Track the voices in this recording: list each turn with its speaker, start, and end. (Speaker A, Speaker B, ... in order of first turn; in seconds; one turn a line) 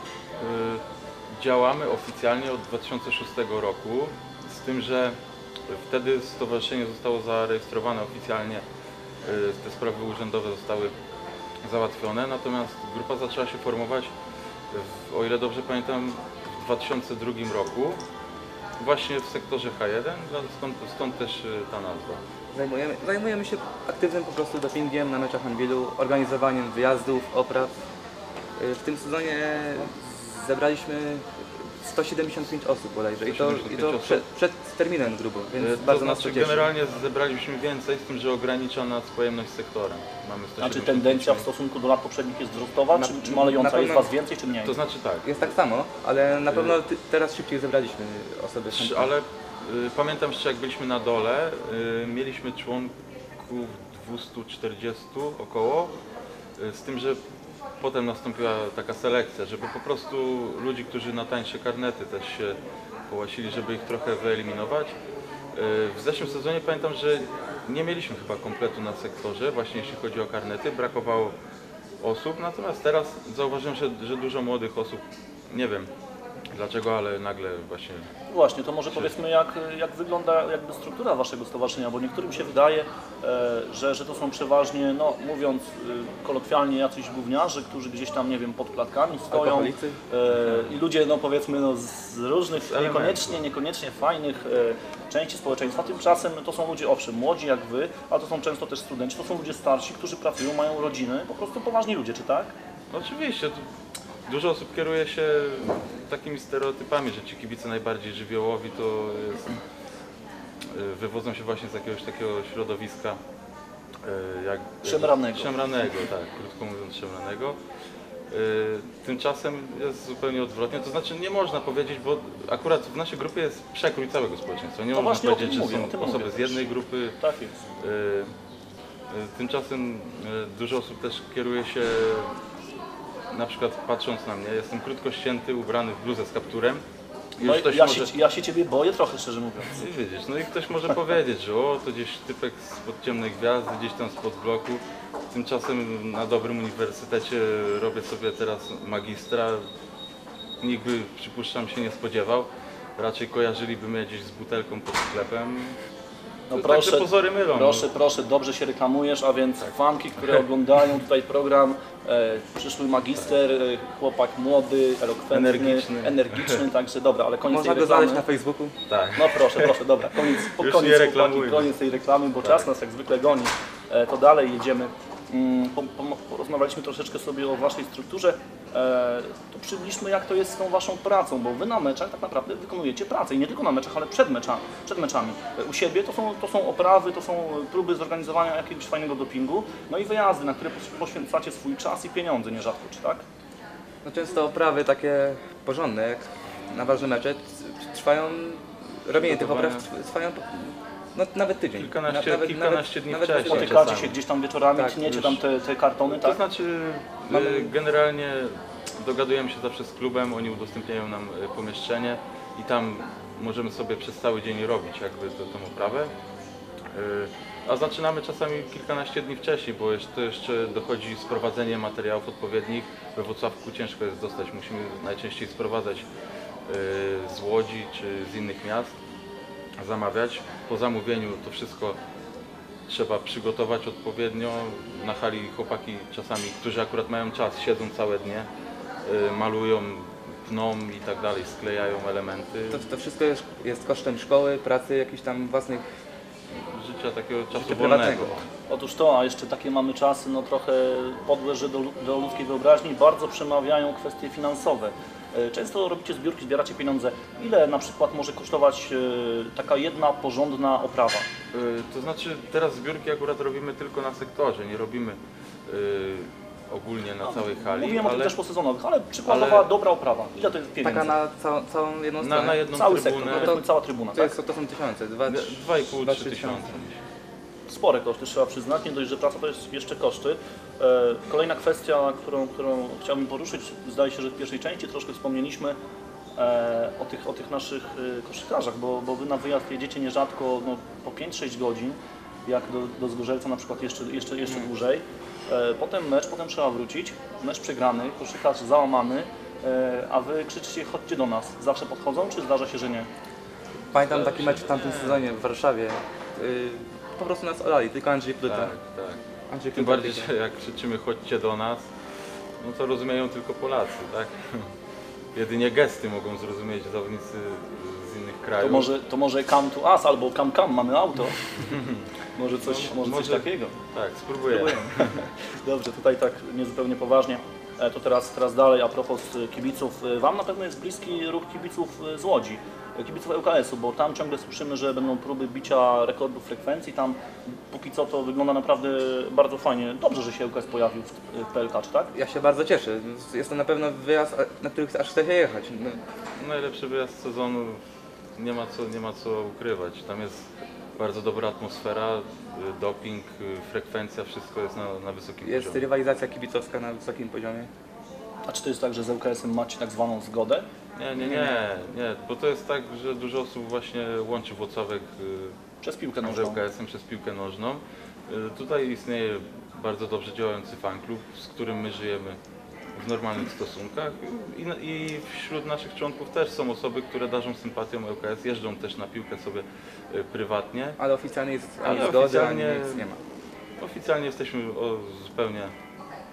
Speaker A: 0.4-0.8
Speaker A: 1.4-5.2
Speaker A: 5.7-8.6
Speaker A: 9.2-10.9
Speaker A: 11.6-14.1
Speaker A: 14.7-18.0
Speaker A: 18.8-22.2
Speaker B: 22.5-27.7
Speaker B: 28.6-36.7
Speaker A: 33.3-34.3
Speaker A: 35.6-41.5
Speaker C: 40.6-44.8
Speaker B: 42.9-44.1
Speaker A: 44.6-45.3
Speaker B: 45.2-49.1
Speaker A: 46.5-46.8
Speaker A: 48.7-55.9
Speaker A: 56.6-57.2
Speaker A: 57.8-65.0
Speaker A: 65.5-71.4
Speaker A: 72.0-75.9
Speaker A: 76.5-78.1
Speaker C: 78.3-102.5
Speaker B: 89.3-90.0
Speaker A: 92.5-93.4
Speaker A: 102.9-103.6
Speaker A: 104.3-109.6
Speaker A: 110.7-113.2
Speaker A: 114.0-117.6
Speaker C: 114.8-115.5
Speaker A: 118.3-127.2
Speaker C: 124.9-127.6
Speaker A: 127.8-128.3
Speaker A: 129.1-132.4
Speaker A: 133.3-136.8
Speaker A: 137.4-138.1
Speaker C: 137.4-139.8
Speaker A: 139.8-149.7
Speaker A: 150.6-155.8
Speaker C: 156.5-168.3
Speaker A: 156.5-157.9
Speaker A: 165.3-166.6
Speaker B: 167.5-168.8
Speaker A: 168.9-169.7
Speaker C: 169.2-193.2
Speaker A: 170.5-171.7
Speaker A: 172.4-172.7
Speaker B: 194.0-203.8
Speaker A: 199.2-199.9
Speaker A: 201.8-204.1
Speaker C: 203.4-206.4
Speaker B: 204.8-205.1
Speaker A: 205.1-205.4
Speaker A: 206.1-216.1
Speaker A: 216.9-226.1
Speaker A: 226.7-229.0
Speaker A: 229.8-232.0
Speaker A: 232.9-238.5
Speaker A: 239.1-242.8
Speaker B: 242.7-245.8
Speaker A: 246.6-248.5
Speaker B: 247.5-248.4
Speaker C: 248.7-261.3
Speaker A: 261.5-268.4
Speaker C: 267.2-271.2
Speaker A: 269.3-269.7
Speaker B: 270.8-272.7
Speaker A: 272.2-273.6
Speaker C: 272.7-274.4
Speaker B: 274.1-276.7
Speaker A: 275.3-277.0
Speaker C: 277.7-285.8
Speaker C: 286.4-303.1
Speaker B: 303.9-308.7
Speaker A: 303.9-305.4
Speaker A: 308.4-309.2
Speaker B: 309.5-310.3
Speaker A: 309.7-311.9
Speaker A: 312.6-314.7
Speaker A: 315.4-318.9
Speaker C: 318.6-321.4
Speaker A: 321.7-322.0
Speaker C: 322.4-323.8
Speaker A: 322.6-325.1
Speaker C: 324.5-337.2
Speaker C: 337.7-342.1
Speaker B: 342.1-346.0
Speaker A: 346.4-347.8
Speaker A: 348.4-355.9
Speaker B: 355.4-357.7
Speaker C: 358.5-360.7
Speaker A: 361.0-365.6
Speaker B: 361.2-361.6
Speaker C: 365.8-366.6
Speaker A: 366.2-372.4
Speaker A: 373.0-381.0
Speaker B: 381.0-383.2
Speaker A: 381.8-383.1
Speaker A: 383.8-385.7